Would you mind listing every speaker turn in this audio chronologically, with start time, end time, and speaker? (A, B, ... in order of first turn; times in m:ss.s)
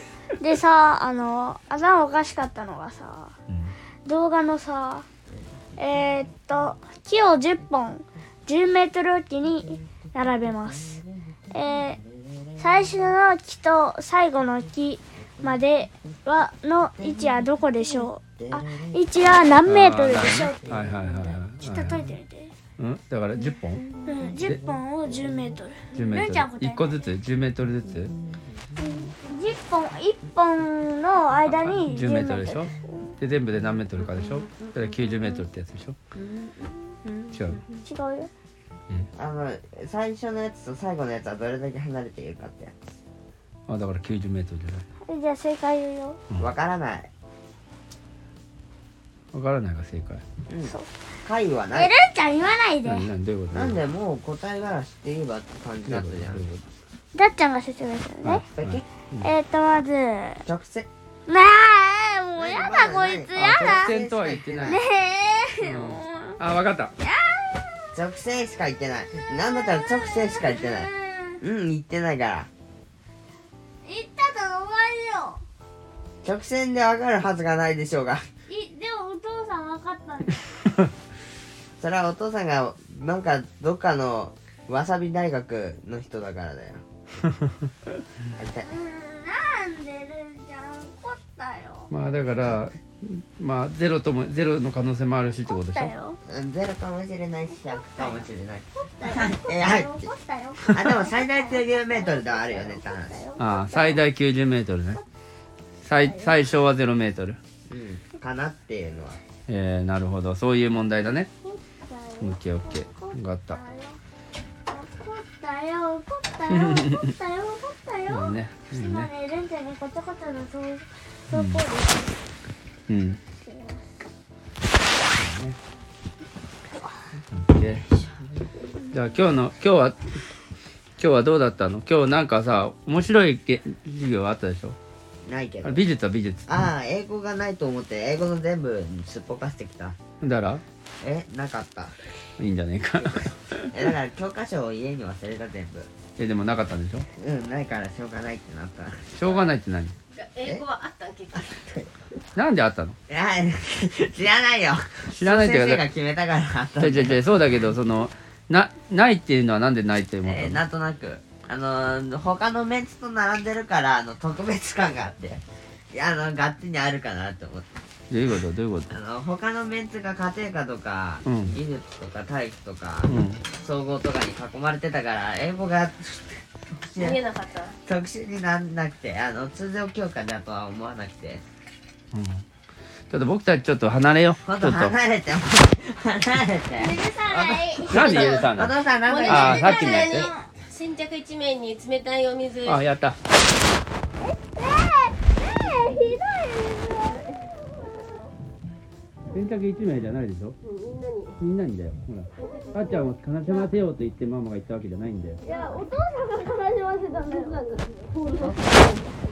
0:00.4-0:03.3 A
0:03.5-0:03.8 B
0:04.0-0:05.1 A
0:05.3-0:06.4 C
0:05.8-0:11.0 A
0:10.0-0:13.1 C
0:11.5-0:12.0 A
0:12.6-0:22.5 A
0:16.9-0:19.0 C
0:19.6-0:22.1 B
0:20.7-0:21.2 C
0:22.8-0:23.8 B
0:23.9-0:24.8 C
0:24.0-0:27.1 A
0:25.9-0:28.1 B
0:28.8-0:33.1 A
0:31.6-0:36.0 B
0:37.3-0:37.6 B
0:37.8-0:38.3 A
0:39.2-0:42.9 C
0:43.7-0:44.8 B
0:45.0-0:46.2 A
0:46.4-0:47.1 C
0:49.3-0:50.2 B
0:50.5-0:51.9 C
0:51.7-0:53.1 A
0:52.8-0:53.8 B
0:53.5-0:56.5 C
0:55.8-0:56.6 B
0:57.2-0:58.4 A
0:58.2-0:59.3 B
0:58.5-0:58.9 C
0:59.2-1:00.4 A
1:00.4-1:00.9 C
1:01.3-1:03.9 A
1:02.4-1:04.8 C
1:03.3-1:04.8 B
1:04.6-1:06.4 A
1:05.6-1:06.9 B
1:07.0-1:07.9 A
1:07.9-1:10.9 C
1:09.2-1:11.4 A
1:11.4-1:12.5 C
1:13.8-1:15.4 A
1:16.2-1:18.2 C
1:18.5-1:20.5 A
1:21.8-1:26.8 C
1:28.4-1:28.7 C
1:28.6-1:31.9 A
1:31.9-1:35.9 B
1:35.5-1:36.2 A
1:36.3-1:40.1 C
1:37.5-1:44.0 A
1:40.7-1:43.2 C
1:43.4-1:45.0 B
1:45.8-1:47.4 B
1:45.9-1:46.4 A
1:47.7-1:49.2 C
1:49.5-1:51.3 B
1:51.4-1:54.0 A
1:52.2-1:53.6 B
1:54.7-2:02.2 A
1:56.5-1:57.1 B
1:58.1-1:59.1 B
2:01.3-2:01.6 B
2:02.9-2:03.2 B
2:03.4-2:04.0 A
2:05.1-2:05.6 B
2:07.3-2:07.9 B
2:08.8-2:09.2 A
2:08.9-2:10.1 B
2:11.0-2:14.8 B
2:15.2-2:15.8 C
2:15.6-2:16.6 B
2:16.5-2:20.0 C
2:20.2-2:20.6 B
2:21.0-2:21.9 C
2:22.4-2:23.8 B
2:23.7-2:25.9 C
2:26.2-2:27.1 B
2:27.2-2:29.1 C
2:29.1-2:29.9 B
2:30.1-2:31.6 D
2:31.4-2:31.9 C
2:32.4-2:33.0 B
2:33.1-2:37.2 C
2:35.1-2:35.8 B
2:36.8-2:40.6 B
2:40.2-2:47.7 C
2:48.1-2:48.9 B
2:48.9-2:57.2 C
2:51.2-2:51.6 B
2:53.1-2:53.4 B
2:57.0-2:57.8 D
2:57.8-3:01.4 C
3:02.1-3:02.4 B
3:03.1-3:04.9 B
3:04.4-3:09.6 C
3:06.8-3:08.5 A
3:07.9-3:08.7 B
3:09.0-3:12.8 D
3:09.2-3:10.3 B
3:09.4-3:10.5 A
3:12.6-3:13.2 B
3:14.2-3:18.2 A
3:15.6-3:16.2 D
3:17.0-3:17.4 D
3:19.3-3:20.6 B
3:20.6-3:21.4 D
3:21.4-3:25.4 B
3:22.4-3:23.7 D
3:22.5-3:22.8 A
3:25.4-3:25.9 D
3:25.4-3:27.6 A
3:27.0-3:29.2 D
3:28.4-3:29.0 C